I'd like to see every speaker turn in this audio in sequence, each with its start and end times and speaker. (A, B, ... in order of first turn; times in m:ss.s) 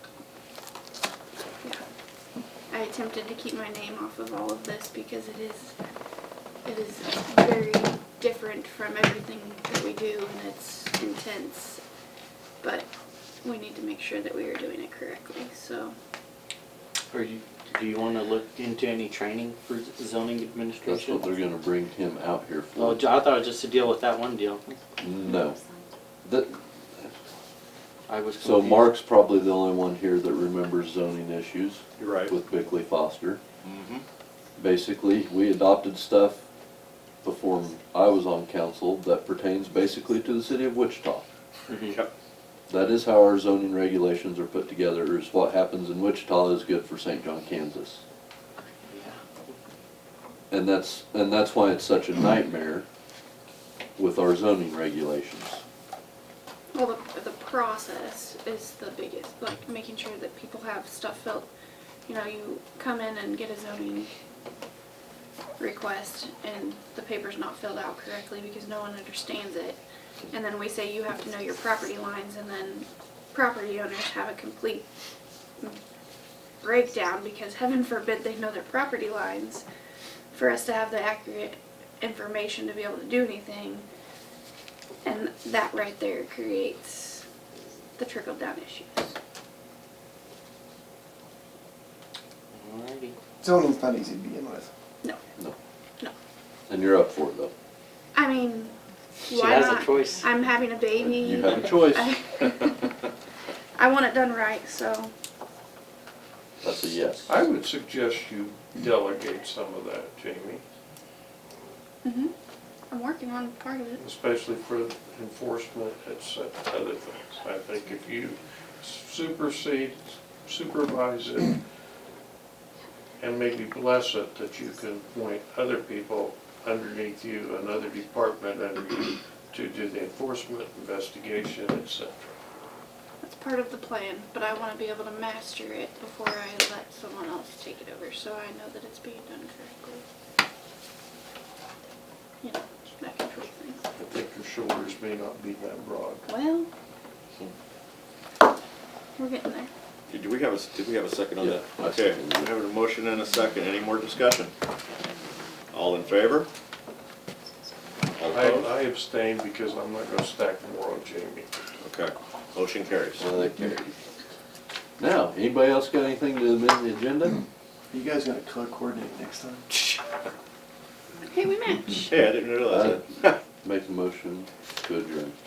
0:02.7-0:05.8 A
0:06.6-0:11.8 A
0:12.6-0:12.9 A
0:13.4-0:15.9 A
0:17.1-0:21.3 B
0:20.8-0:23.0 C
0:22.8-0:24.8 B
0:25.0-0:25.6 C
0:26.2-0:27.1 C
0:28.1-0:28.9 B
0:28.4-0:33.4 C
0:32.0-0:32.3 D
0:33.6-0:34.0 D
0:34.6-0:36.4 C
0:37.2-0:41.3 C
0:41.7-0:42.0 B
0:41.8-0:42.1 D
0:42.7-0:48.0 C
0:48.9-0:49.5 B
0:50.5-0:52.8 C
0:54.0-0:55.6 C
0:56.7-1:01.5 A
1:02.0-1:04.1 A
1:05.6-1:09.8 A
1:10.3-1:14.9 A
1:16.6-1:19.6 A
1:20.3-1:23.8 A
1:25.0-1:27.2 A
1:28.0-1:29.1 A
1:32.5-1:33.2 B
1:33.4-1:34.7 E
1:36.7-1:37.5 C
1:38.1-1:38.8 A
1:39.2-1:40.2 B
1:39.3-1:42.9 A
1:41.0-1:42.2 C
1:43.8-1:45.1 A
1:46.6-1:47.3 C
1:47.3-1:50.6 F
1:52.0-1:52.3 A
1:52.9-1:54.0 A
1:54.0-2:01.6 F
2:03.2-2:12.4 F
2:13.2-2:20.0 A
2:22.4-2:23.8 A
2:24.0-2:26.2 F
2:26.2-2:26.7 A
2:29.2-2:29.7 A
2:30.1-2:34.5 D
2:31.4-2:32.5 C
2:35.7-2:36.5 D
2:38.1-2:38.7 D
2:38.3-2:41.5 F
2:41.8-2:43.2 D
2:43.2-2:43.9 C
2:45.0-2:47.4 C
2:47.9-2:50.0 E
2:51.2-2:52.1 A
2:52.1-2:53.4 D
2:52.6-2:55.4 C